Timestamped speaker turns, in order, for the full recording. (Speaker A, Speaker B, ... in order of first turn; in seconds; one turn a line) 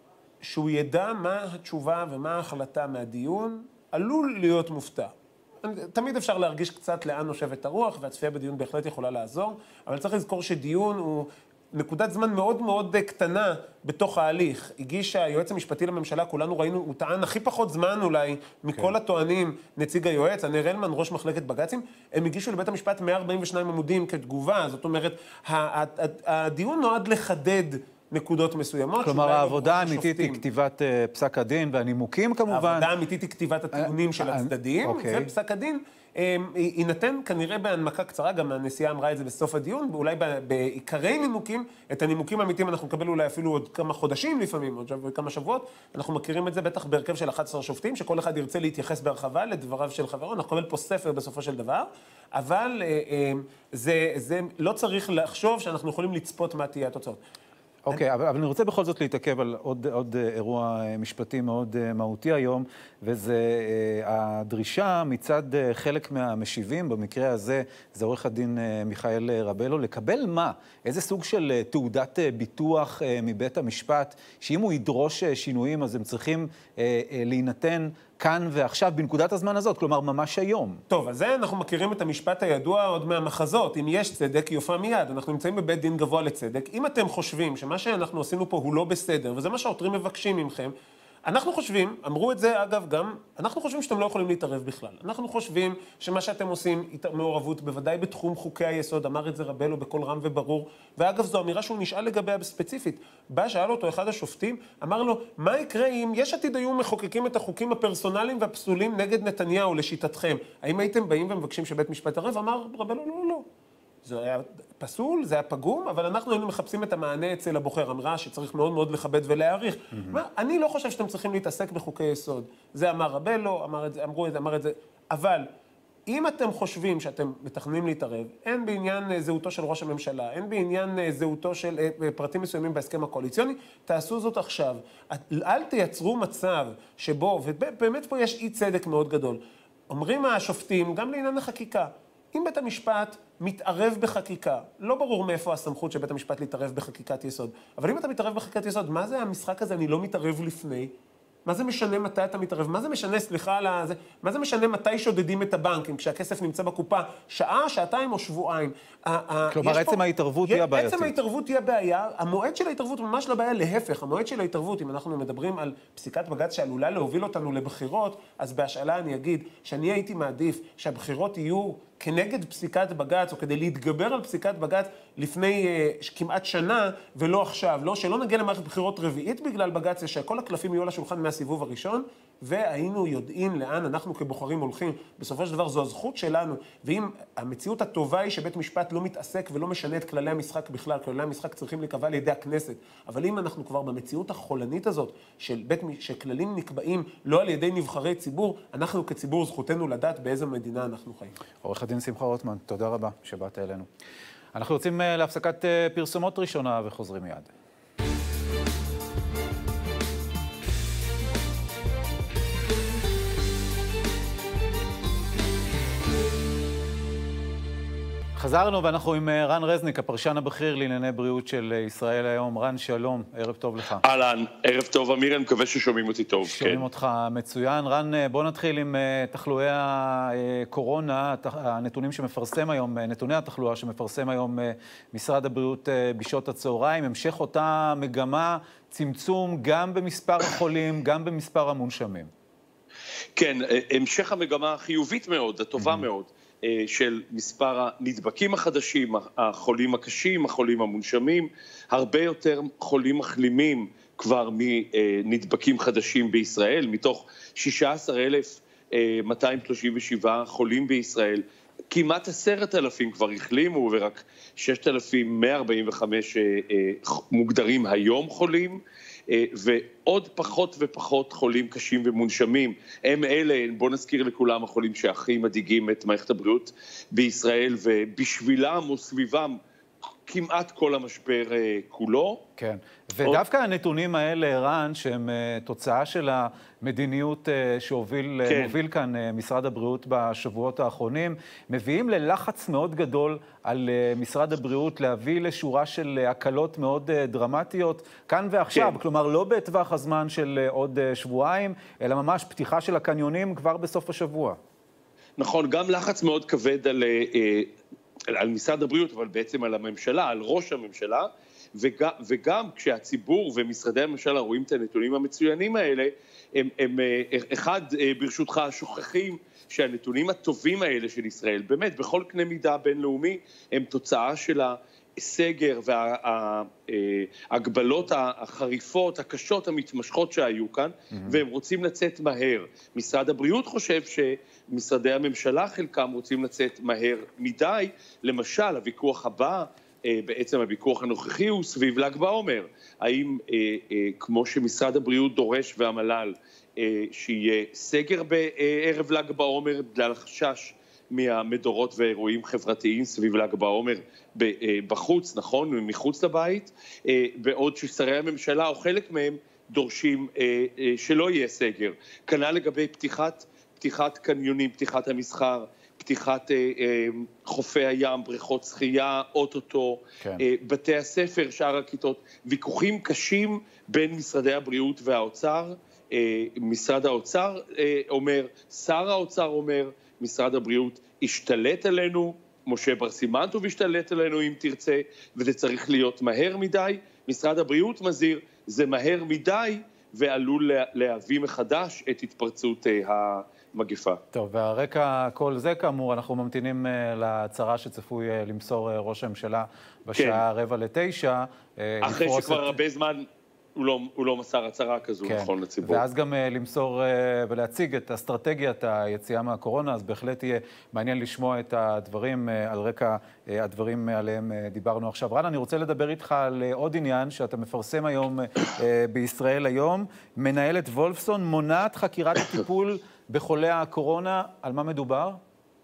Speaker A: 0.4-30.4
Speaker B: 29.0-32.9
Speaker A: 32.5-57.2
Speaker B: 33.7-35.3
Speaker B: 57.9-80.8
Speaker A: 80.9-113.5
Speaker A: 114.0-125.5
Speaker B: 119.9-120.2
Speaker A: 126.1-150.9
Speaker A: 151.5-201.3
Speaker B: 159.5-161.2
Speaker B: 201.6-203.9
Speaker B: 204.5-207.5
Speaker B: 218.4-224.0
Speaker C: 224.0-226.8
Speaker B: 226.4-242.3
Speaker C: 243.4-279.6
Speaker B: 245.8-246.1
Speaker C: 280.3-282.4
Speaker B: 282.6-304.6
Speaker C: 288.5-288.8
Speaker C: 298.7-299.0
Speaker C: 305.4-307.7
Speaker C: 308.3-394.2
Speaker B: 331.1-331.4
Speaker B: 394.3-402.8
Speaker C: 400.1-400.4
Speaker C: 402.0-403.3
Speaker C: 403.8-406.0
Speaker B: 405.2-425.4